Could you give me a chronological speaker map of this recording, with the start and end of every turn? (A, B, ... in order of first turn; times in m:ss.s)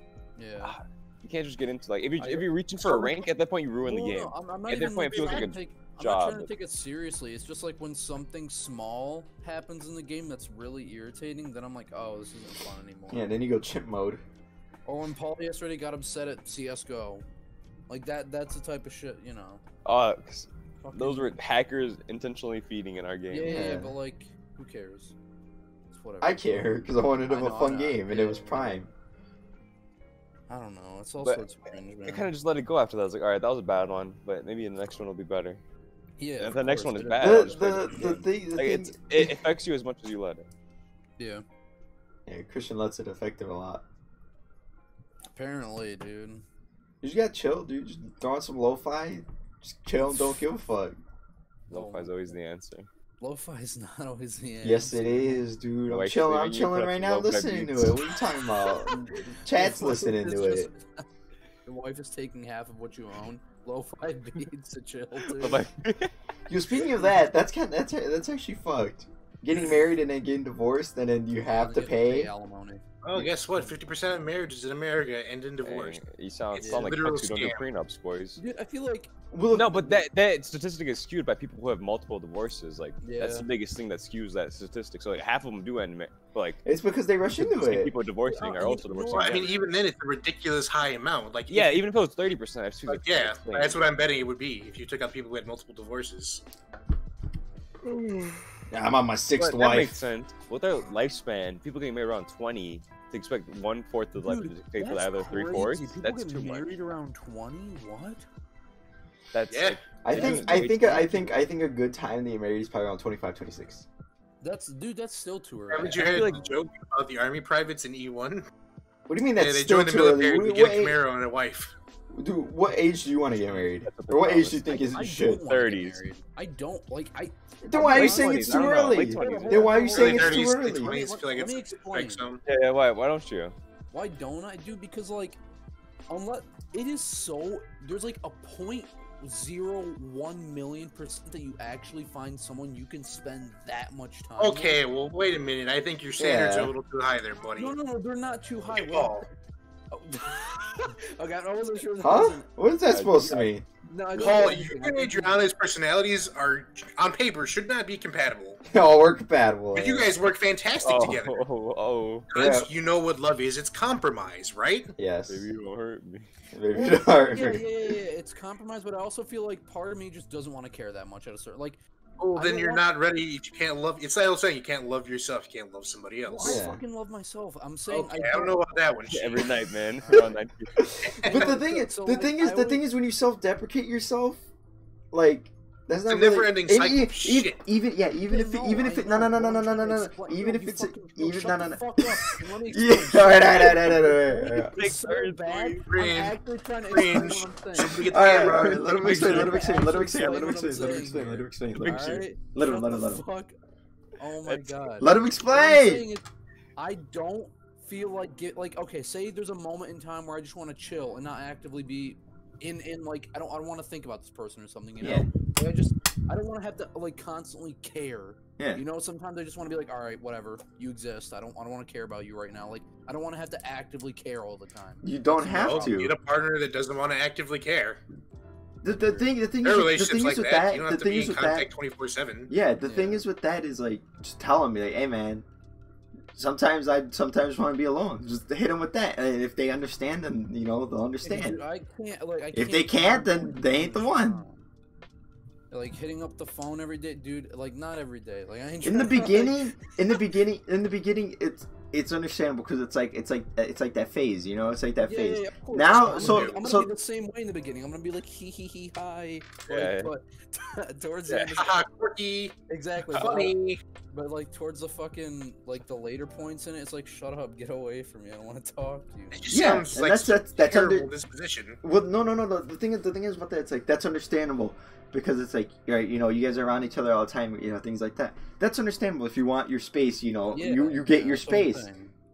0:00.4-0:00.8 A
0:00.6-0:06.5 B
0:02.2-0:03.3 A
0:03.8-0:13.3 A
0:13.1-0:14.2 C
0:14.8-0:17.2 A
0:17.9-0:19.6 A
0:19.8-0:23.6 B
0:20.8-0:21.4 A
0:23.3-0:25.1 A
0:23.4-0:23.9 C
0:25.9-0:28.8 A
0:26.2-0:28.9 C
0:30.5-0:32.3 A
0:32.0-0:35.6 B
0:36.2-0:38.2 A
0:36.4-0:40.5 B
0:37.2-0:39.3 C
0:41.2-0:41.4 A
0:42.3-0:43.8 C
0:45.3-0:46.4 A
0:47.0-0:51.0 C
0:51.7-0:52.9 B
0:51.7-0:52.4 A
0:53.2-0:55.4 A
0:54.6-1:00.7 C
0:55.9-0:58.0 B
0:58.7-1:01.0 A
1:01.6-1:05.6 A
1:05.3-1:06.1 B
1:06.5-1:12.3 C
1:11.5-1:12.8 A
1:13.0-1:16.0 D
1:15.6-1:18.4 B
1:16.5-1:17.7 D
1:16.6-1:16.9 A
1:18.4-1:19.1 A
1:19.3-1:20.0 C
1:19.5-1:26.6 B
1:23.0-1:23.5 A
1:26.6-1:27.9 C
1:27.3-1:29.5 B
1:28.2-1:29.7 A
1:29.1-1:31.8 D
1:31.5-1:33.8 B
1:32.9-1:36.4 D
1:37.8-1:38.4 B
1:38.7-1:40.0 C
1:39.4-1:46.7 B
1:44.2-1:48.2 A
1:49.3-1:51.4 B
1:49.5-1:49.8 D
1:50.0-1:53.8 C
1:50.1-1:50.9 A
1:54.4-1:56.5 A
1:55.7-1:58.4 D
1:55.8-1:56.6 B
1:59.1-2:01.0 C
1:59.4-2:01.7 D
2:02.1-2:05.4 C
2:03.4-2:04.8 B
2:04.7-2:12.3 A
2:05.4-2:06.0 B
2:07.6-2:11.0 C
2:07.9-2:10.0 B
2:09.9-2:12.4 D
2:12.4-2:13.5 B
2:13.9-2:15.4 A
2:16.1-2:24.8 A
2:24.4-2:27.7 D
2:26.2-2:26.7 C
2:27.6-2:29.2 A
2:28.7-2:29.3 D
2:29.9-2:32.4 A
2:32.0-2:33.6 C
2:32.9-2:33.5 B
2:33.9-2:35.5 A
2:34.1-2:38.6 D
2:38.6-2:40.1 C
2:39.7-2:41.4 D
2:40.8-2:42.3 B
2:42.3-2:44.9 D
2:42.3-2:42.7 C
2:45.0-2:45.5 C
2:45.3-2:46.3 B
2:46.5-2:47.9 C
2:46.7-2:51.8 A
2:52.2-2:56.6 D
2:52.4-2:52.8 A
2:56.2-2:58.6 A
2:56.4-2:56.8 C
2:57.9-2:59.5 D
2:59.1-3:00.9 B
3:00.0-3:00.3 A
3:00.8-3:04.4 C
3:01.0-3:01.5 D
3:01.2-3:02.8 A
3:05.1-3:14.7 C
3:06.1-3:07.6 D
3:08.3-3:23.5 A
3:13.9-3:15.9 B
3:15.9-3:19.0 D
3:18.0-3:23.2 C
3:18.7-3:19.6 B
3:21.7-3:22.3 B
3:24.2-3:46.0 A
3:24.4-3:24.8 B
3:25.0-3:26.1 C
3:35.0-3:35.3 C
3:38.6-3:38.8 C
3:45.0-3:46.2 C
3:45.5-3:48.0 D
3:48.8-3:51.7 C
3:48.8-3:49.3 A
3:49.6-3:52.5 D
3:52.5-3:55.4 C
3:52.8-3:53.2 A
3:56.4-4:01.6 C
4:01.2-4:04.6 A
4:02.5-4:04.4 C
4:05.7-4:09.7 A
4:08.8-4:16.9 C
4:15.0-4:21.8 A
4:15.9-4:16.6 D
4:19.7-4:20.1 B
4:21.3-4:21.6 B
4:21.6-4:22.6 D
4:22.7-4:23.6 A
4:23.1-4:23.5 B
4:23.1-4:23.8 D
4:24.1-4:29.6 A
4:29.3-4:31.8 D
4:29.5-4:31.1 C
4:31.8-4:41.9 C
4:40.5-4:42.1 A